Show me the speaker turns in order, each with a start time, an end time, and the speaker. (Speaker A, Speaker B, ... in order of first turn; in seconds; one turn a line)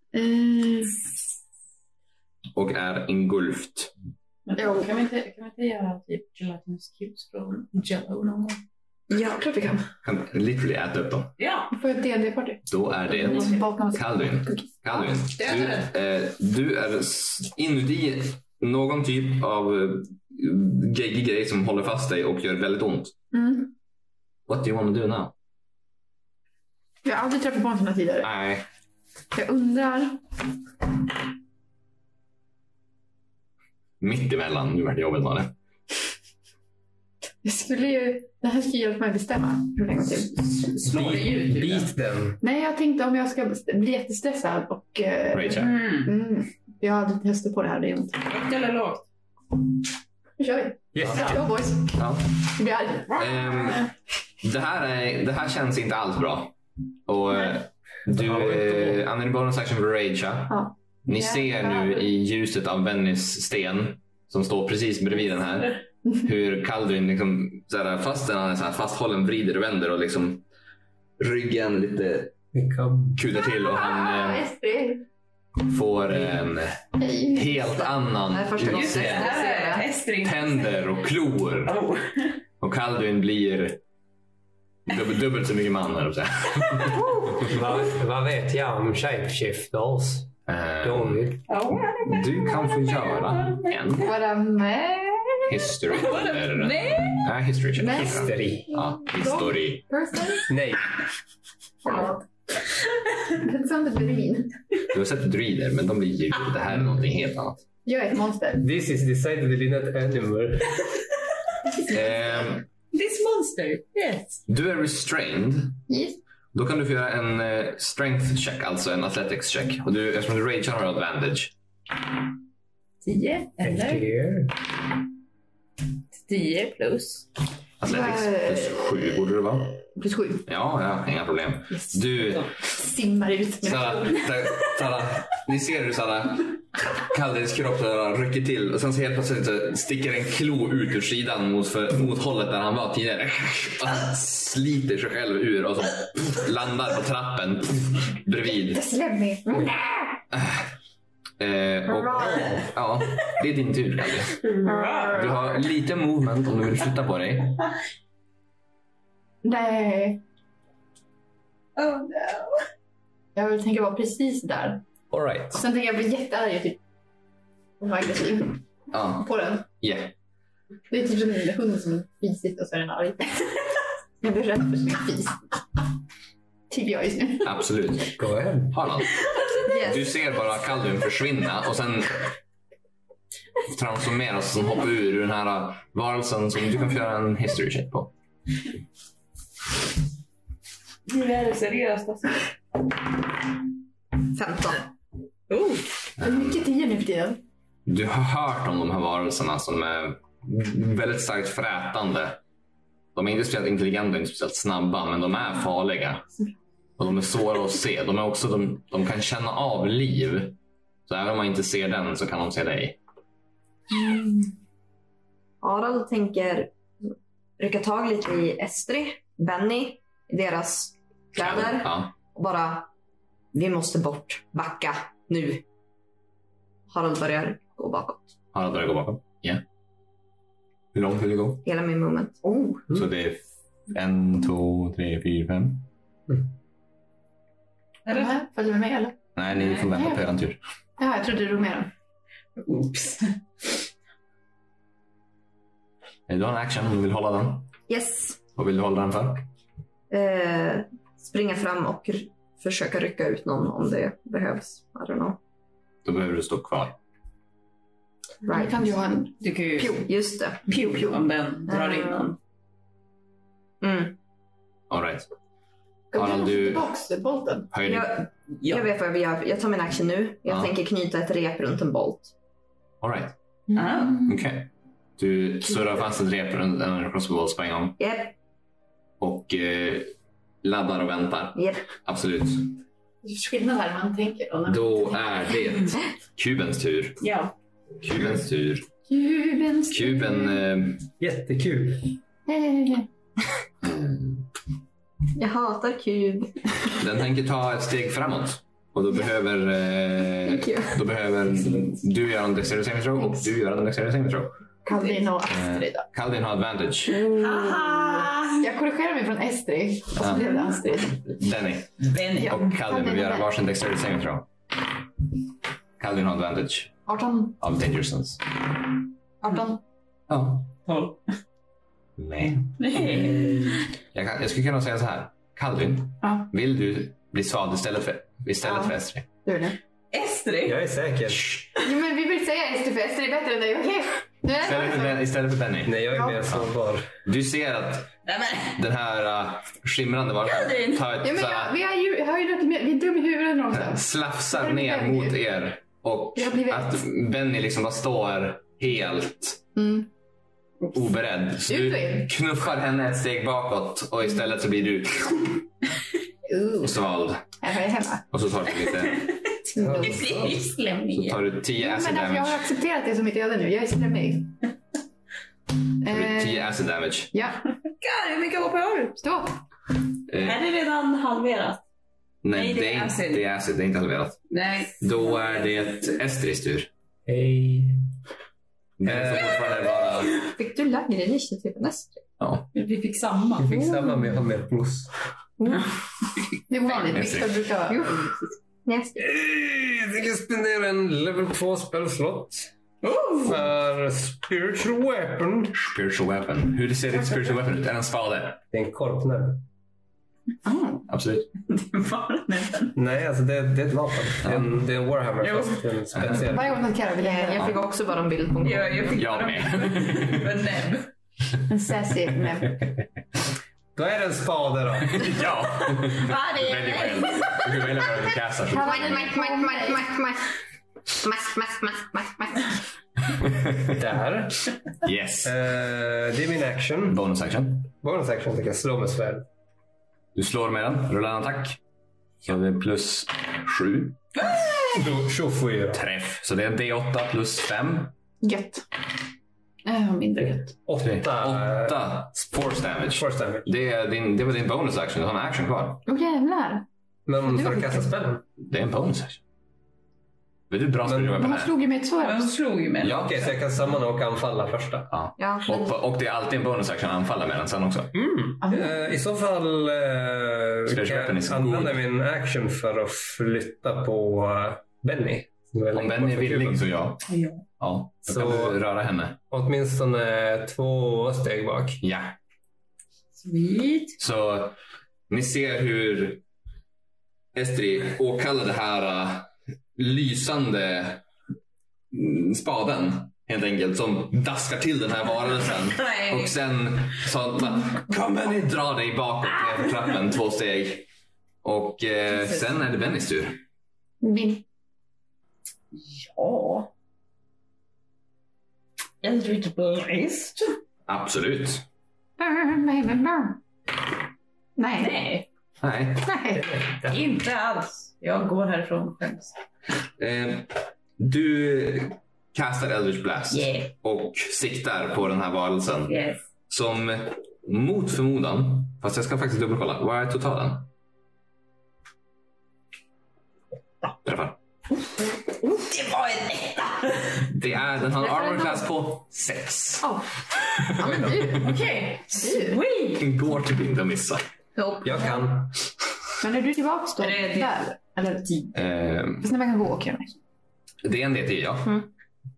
Speaker A: 0.1-1.0
Speaker B: 2.5-3.9
Speaker C: 4.5-8.6
Speaker D: 9.1-9.8
Speaker B: 10.0-11.3
Speaker C: 11.4-11.7
Speaker A: 11.7-14.6
Speaker B: 12.7-23.1
Speaker C: 13.3-13.6
Speaker C: 15.4-15.9
Speaker A: 23.3-23.7
Speaker B: 24.5-25.3
Speaker A: 27.0-28.3
Speaker B: 28.2-28.6
Speaker A: 29.3-30.2
Speaker B: 34.0-35.5
Speaker A: 37.4-40.4
Speaker C: 40.5-41.9
Speaker E: 40.8-42.4
Speaker A: 42.4-48.2
Speaker B: 45.3-45.7
Speaker C: 45.5-46.1
Speaker C: 48.2-49.0
Speaker A: 50.4-52.0
Speaker E: 50.9-51.4
Speaker B: 51.9-52.3
Speaker A: 52.5-53.8
Speaker B: 53.1-53.9
Speaker B: 54.4-56.5
Speaker B: 57.1-70.4
Speaker E: 58.1-59.0
Speaker A: 60.5-62.1
Speaker B: 71.2-72.3
Speaker E: 72.5-73.2
Speaker B: 73.1-74.5
Speaker A: 73.6-75.0
Speaker B: 75.6-79.4
Speaker A: 77.0-77.9
Speaker D: 78.3-79.9
Speaker C: 78.7-80.8
Speaker B: 80.2-81.8
Speaker C: 81.6-82.4
Speaker B: 82.6-83.8
Speaker B: 84.8-87.0
Speaker A: 86.9-87.5
Speaker E: 87.4-91.4
Speaker B: 90.5-91.3
Speaker C: 91.5-94.0
Speaker B: 92.0-94.1
Speaker A: 94.0-95.7
Speaker B: 95.5-99.8
Speaker C: 95.9-97.3
Speaker A: 97.8-98.3
Speaker E: 97.9-98.7
Speaker A: 99.0-100.5
Speaker E: 100.5-100.9
Speaker A: 101.8-102.2
Speaker A: 103.3-104.6
Speaker B: 104.9-107.6
Speaker A: 107.8-108.6
Speaker E: 108.6-110.8
Speaker B: 111.9-112.7
Speaker C: 112.9-114.4
Speaker B: 114.5-115.8
Speaker A: 115.9-116.2
Speaker B: 116.5-121.5
Speaker C: 123.0-124.1
Speaker E: 123.6-124.5
Speaker C: 126.2-127.3
Speaker B: 127.8-129.7
Speaker A: 127.8-130.5
Speaker B: 130.5-132.5
Speaker A: 132.6-134.3
Speaker B: 133.6-148.8
Speaker A: 148.5-149.8
Speaker B: 150.3-150.6
Speaker B: 151.4-154.4
Speaker C: 154.4-155.3
Speaker A: 154.6-155.2
Speaker B: 155.1-157.6
Speaker A: 159.4-160.2
Speaker C: 161.8-162.5
Speaker A: 163.3-164.8
Speaker B: 165.1-165.6
Speaker A: 165.5-166.8
Speaker A: 167.8-169.6
Speaker B: 168.9-170.1
Speaker A: 170.9-173.6
Speaker A: 174.2-175.4
Speaker A: 176.7-177.5
Speaker B: 177.4-178.2
Speaker E: 178.2-178.7
Speaker B: 178.7-179.2
Speaker C: 179.2-179.6
Speaker D: 179.6-180.1
Speaker B: 179.7-182.2
Speaker B: 183.7-188.1
Speaker C: 191.1-192.4
Speaker D: 194.3-194.8
Speaker C: 195.5-196.0
Speaker B: 196.2-196.7
Speaker A: 196.2-197.4
Speaker B: 197.8-202.4
Speaker B: 203.1-206.2
Speaker B: 207.0-213.0
Speaker D: 215.6-217.1
Speaker D: 217.6-222.9
Speaker B: 221.3-222.1
Speaker D: 223.5-225.6
Speaker D: 226.9-228.3
Speaker B: 228.5-229.6
Speaker B: 230.9-231.6
Speaker D: 231.6-232.9
Speaker B: 232.9-235.9
Speaker C: 238.1-238.3
Speaker A: 238.1-239.1
Speaker B: 239.3-240.6
Speaker A: 239.9-240.2
Speaker A: 241.0-241.9
Speaker C: 242.6-243.4
Speaker B: 246.3-247.7
Speaker D: 247.9-248.4
Speaker B: 248.6-249.5
Speaker D: 250.1-255.4
Speaker B: 256.0-257.0
Speaker D: 258.4-258.8
Speaker A: 258.5-260.1
Speaker C: 259.4-260.1
Speaker D: 260.0-260.7
Speaker A: 260.7-261.2
Speaker C: 260.7-262.4
Speaker D: 261.7-262.3
Speaker D: 263.8-264.1
Speaker B: 264.9-265.3
Speaker A: 266.1-267.7
Speaker B: 266.1-266.9
Speaker B: 267.7-268.2
Speaker D: 267.8-272.3
Speaker C: 268.6-268.9
Speaker B: 270.4-270.7
Speaker B: 273.0-273.3
Speaker C: 273.7-274.3
Speaker A: 273.7-274.3
Speaker B: 274.2-278.0
Speaker D: 278.0-278.3
Speaker B: 279.2-280.1
Speaker B: 280.6-282.8
Speaker D: 281.5-281.8
Speaker A: 283.2-285.2
Speaker B: 284.6-287.2
Speaker C: 287.2-287.5
Speaker B: 288.0-288.9
Speaker A: 289.1-290.6
Speaker B: 289.9-291.1
Speaker E: 291.2-292.1
Speaker A: 292.5-293.1
Speaker B: 293.8-294.4
Speaker D: 295.3-296.9
Speaker B: 297.0-304.5
Speaker D: 300.5-300.9
Speaker A: 304.8-306.1
Speaker B: 305.5-307.3
Speaker C: 307.2-308.6
Speaker A: 308.6-311.2
Speaker B: 310.2-310.5
Speaker C: 310.3-310.8
Speaker B: 311.1-314.4
Speaker C: 312.0-312.7
Speaker A: 312.4-313.5
Speaker B: 316.0-317.0
Speaker A: 317.1-317.6
Speaker B: 317.6-318.4
Speaker A: 319.4-319.8
Speaker B: 320.3-320.7
Speaker C: 320.9-321.2
Speaker B: 322.2-323.0
Speaker C: 322.8-323.9
Speaker E: 323.0-323.8
Speaker B: 324.1-329.2
Speaker A: 326.2-326.5
Speaker A: 328.6-329.8
Speaker C: 330.1-330.8
Speaker E: 330.6-331.4
Speaker A: 331.8-335.2
Speaker B: 334.6-336.7
Speaker E: 335.8-337.1
Speaker A: 336.1-336.4
Speaker B: 337.2-338.1
Speaker C: 338.2-338.8
Speaker B: 338.7-341.7
Speaker C: 340.4-341.1
Speaker A: 341.2-345.4
Speaker B: 343.7-349.6
Speaker A: 346.3-347.0
Speaker A: 349.8-350.1
Speaker B: 350.9-355.6
Speaker A: 351.7-352.3
Speaker A: 356.5-356.9
Speaker B: 356.8-357.4
Speaker A: 357.6-358.2
Speaker B: 358.3-359.3
Speaker C: 359.1-361.4
Speaker E: 359.8-360.6
Speaker A: 359.8-360.1
Speaker B: 361.1-362.6
Speaker A: 361.8-364.6
Speaker A: 366.0-366.7
Speaker B: 366.1-367.3
Speaker A: 367.3-367.6
Speaker C: 368.0-369.2
Speaker A: 369.2-369.6
Speaker B: 370.3-370.6
Speaker C: 370.4-371.8
Speaker B: 372.4-374.4
Speaker C: 372.5-373.4
Speaker C: 374.5-375.9
Speaker B: 375.0-376.9
Speaker E: 377.2-378.0
Speaker B: 379.0-380.4
Speaker E: 379.0-379.6
Speaker D: 380.4-382.2
Speaker B: 382.4-382.7
Speaker C: 382.7-383.8
Speaker E: 383.6-385.1
Speaker D: 383.7-384.3
Speaker D: 385.6-385.9
Speaker A: 386.7-388.2
Speaker B: 386.9-387.6
Speaker D: 387.9-388.3
Speaker D: 388.8-389.3
Speaker E: 389.2-392.7
Speaker C: 393.0-393.6
Speaker E: 393.4-395.8
Speaker B: 395.7-398.6
Speaker E: 398.7-399.6
Speaker B: 401.1-401.5
Speaker C: 401.6-403.0
Speaker E: 402.9-406.8
Speaker B: 404.4-404.7
Speaker C: 405.4-405.8
Speaker B: 406.1-406.5
Speaker A: 406.5-407.7
Speaker D: 407.2-409.2
Speaker C: 408.6-411.1
Speaker B: 409.1-410.5
Speaker A: 411.7-412.8
Speaker E: 413.9-415.4
Speaker B: 415.1-419.3
Speaker C: 416.1-417.8
Speaker D: 418.7-420.6
Speaker A: 418.7-420.0
Speaker D: 421.1-422.8
Speaker E: 423.9-424.8
Speaker B: 425.0-425.5
Speaker E: 425.4-427.2
Speaker B: 427.1-427.9
Speaker E: 428.0-429.4
Speaker B: 430.3-431.8
Speaker B: 432.4-434.2
Speaker C: 434.4-435.0
Speaker E: 434.9-436.0
Speaker B: 435.9-438.1
Speaker A: 438.4-438.8
Speaker A: 439.8-440.6
Speaker E: 440.4-442.0
Speaker B: 441.0-446.0
Speaker E: 443.1-443.7
Speaker A: 446.1-446.8
Speaker E: 447.2-448.4
Speaker A: 447.4-448.1
Speaker B: 448.6-449.4
Speaker B: 450.7-451.7
Speaker E: 451.1-451.4
Speaker A: 451.4-452.6
Speaker C: 452.2-453.5
Speaker B: 453.0-453.5
Speaker E: 453.2-455.1
Speaker B: 455.1-458.1
Speaker D: 455.4-455.9
Speaker E: 458.1-466.9
Speaker A: 458.6-458.9
Speaker B: 460.9-462.0
Speaker B: 465.9-467.2
Speaker C: 467.3-467.6
Speaker B: 467.8-469.4
Speaker E: 468.3-468.8
Speaker E: 469.5-472.0
Speaker B: 472.0-472.4
Speaker C: 473.3-474.2
Speaker B: 474.2-474.8
Speaker B: 475.3-476.4
Speaker B: 477.5-481.2
Speaker B: 482.1-491.1
Speaker C: 485.9-486.6
Speaker B: 491.6-493.6
Speaker C: 492.3-492.7
Speaker A: 494.2-494.6
Speaker C: 495.9-496.9
Speaker C: 499.2-500.8
Speaker B: 501.1-501.8
Speaker A: 502.4-503.6
Speaker A: 504.8-505.2
Speaker C: 505.0-505.5
Speaker B: 505.8-506.3
Speaker A: 506.2-506.6
Speaker E: 506.6-507.2
Speaker C: 507.0-509.5
Speaker B: 510.2-516.1
Speaker C: 513.5-513.9
Speaker C: 516.1-516.4
Speaker B: 516.7-520.9
Speaker B: 524.2-524.6
Speaker C: 525.0-527.5
Speaker B: 527.5-530.1
Speaker A: 528.2-528.8
Speaker A: 530.0-530.3
Speaker B: 530.8-531.5
Speaker D: 531.0-531.6
Speaker A: 531.0-531.7
Speaker C: 531.5-533.3
Speaker A: 532.4-532.8
Speaker B: 533.2-534.4
Speaker D: 534.8-535.4
Speaker E: 535.0-535.7
Speaker A: 536.4-540.4
Speaker C: 537.2-537.8
Speaker B: 538.7-539.5
Speaker B: 541.0-542.0